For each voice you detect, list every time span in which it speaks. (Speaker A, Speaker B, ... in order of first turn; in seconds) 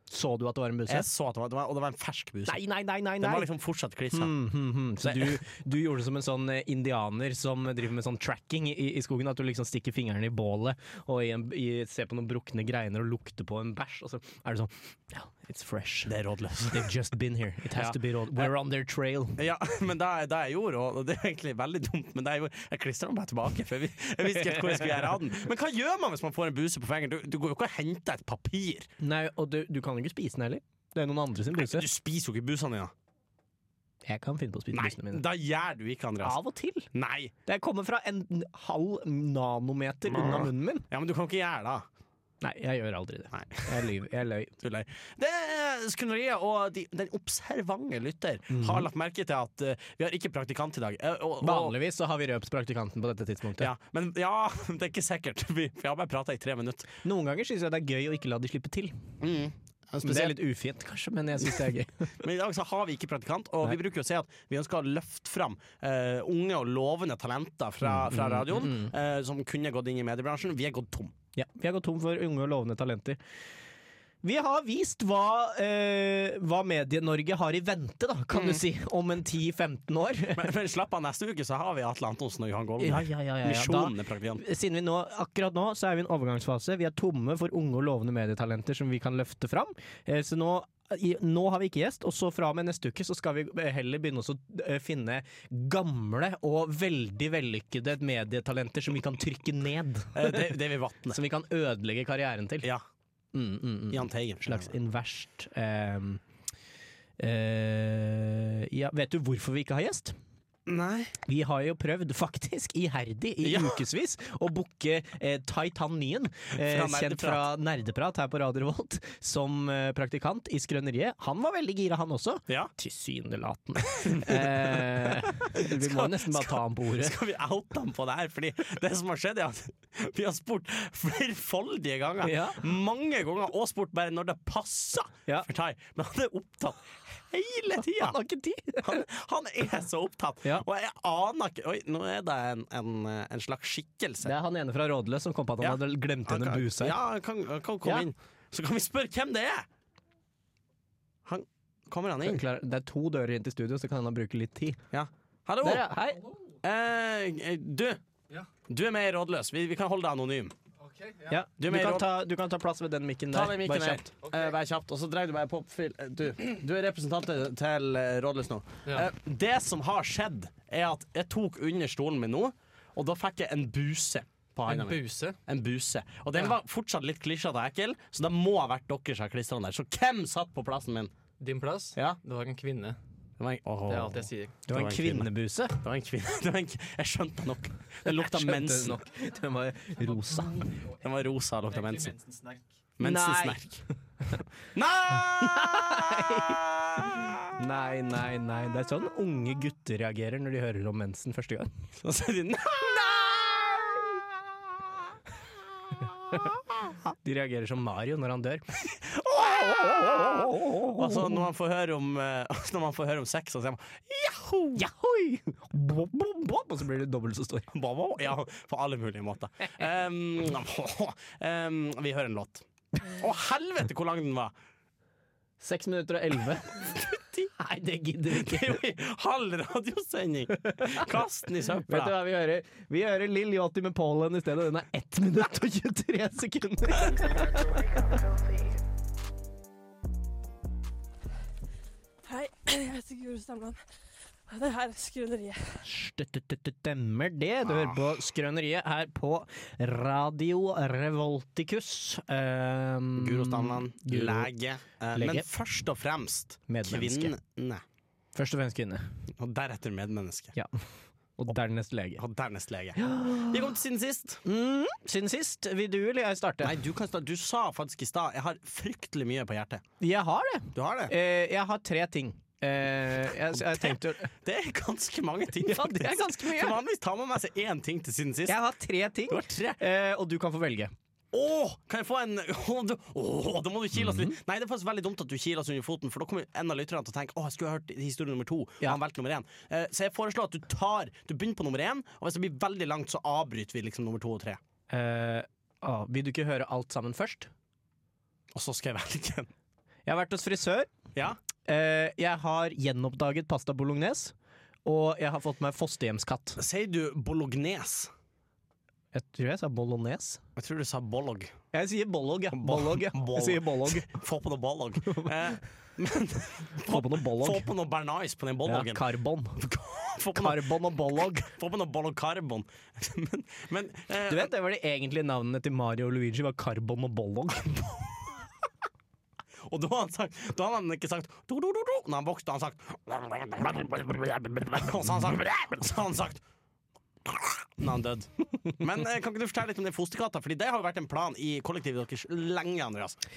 Speaker A: 0.1-1.1, 2.5-3.5, 4.1-16.1, 16.6-19.4, 24.4-25.1, 29.0-31.9, 34.0-35.2, 36.2-36.9, 37.5-40.9, 42.4-44.5, 48.5-48.9, 51.4-53.7, 57.0-59.0, 60.0-62.2, 67.8-68.9, 71.3-73.2, 74.2-80.5, 82.8-100.5, 101.1-102.7, 103.3-106.2, 107.2-110.2, 111.3-127.2, 132.2-132.6, 137.8-139.1, 144.2-147.0, 152.2-154.8, 155.6-156.3, 161.3-164.1, 184.7-185.8, 188.1-190.8, 193.0-193.6, 195.2-201.7, 207.2-208.7, 209.3-211.4, 214.8-217.7, 225.6-227.0, 227.6-228.8, 230.6-231.1, 231.8-238.0, 245.8-254.5, 255.1-255.5, 256.7-257.4, 258.4-259.1, 261.4-262.2, 263.0-263.6, 264.4-266.8, 270.0-274.3, 275.6-276.8, 278.5-280.9, 284.0-284.4, 294.9-297.5, 300.1-300.9, 301.7-304.3, 304.9-306.6, 309.1-310.4, 311.7-314.1, 315.1-315.4, 316.9-317.7, 318.6-319.6, 320.3-321.5, 324.2-327.9
Speaker B: 0.9-2.6, 3.2-4.3, 5.0-5.4, 16.1-16.9, 17.8-18.5, 19.4-28.9, 31.5-32.9, 34.7-36.4, 36.9-37.3, 40.1-41.9, 43.3-43.9, 44.6-51.8, 53.6-56.9, 59.2-60.4, 62.2-71.1, 78.3-78.6, 80.3-84.4, 100.2-101.2, 103.9-104.7, 110.7-111.2, 113.4-113.8, 116.6-117.5, 124.0-138.2, 138.8-144.3, 145.6-149.7, 151.2-152.4, 154.9-155.9, 156.6-158.0, 158.7-160.5, 161.6-162.1, 163.3-181.1, 183.4-189.0, 190.8-192.2, 193.0-193.8, 194.7-197.3, 202.0-204.2, 208.9-214.8, 217.7-224.5, 226.8-227.5, 228.3-232.2, 247.7-248.0, 253.2-257.8, 259.3-260.6, 262.2-264.4, 266.6-269.8, 270.7-271.1, 273.5-278.6, 279.3-279.8, 281.3-294.6, 298.5-299.5, 306.6-308.1, 310.6-311.5, 312.5-319.0, 319.6-324.5, 329.6-336.4, 337.2-343.2
Speaker C: 174.7-175.4, 181.4-183.0, 183.9-184.6, 192.0-192.6
Speaker D: 242.2-243.8, 244.5-245.8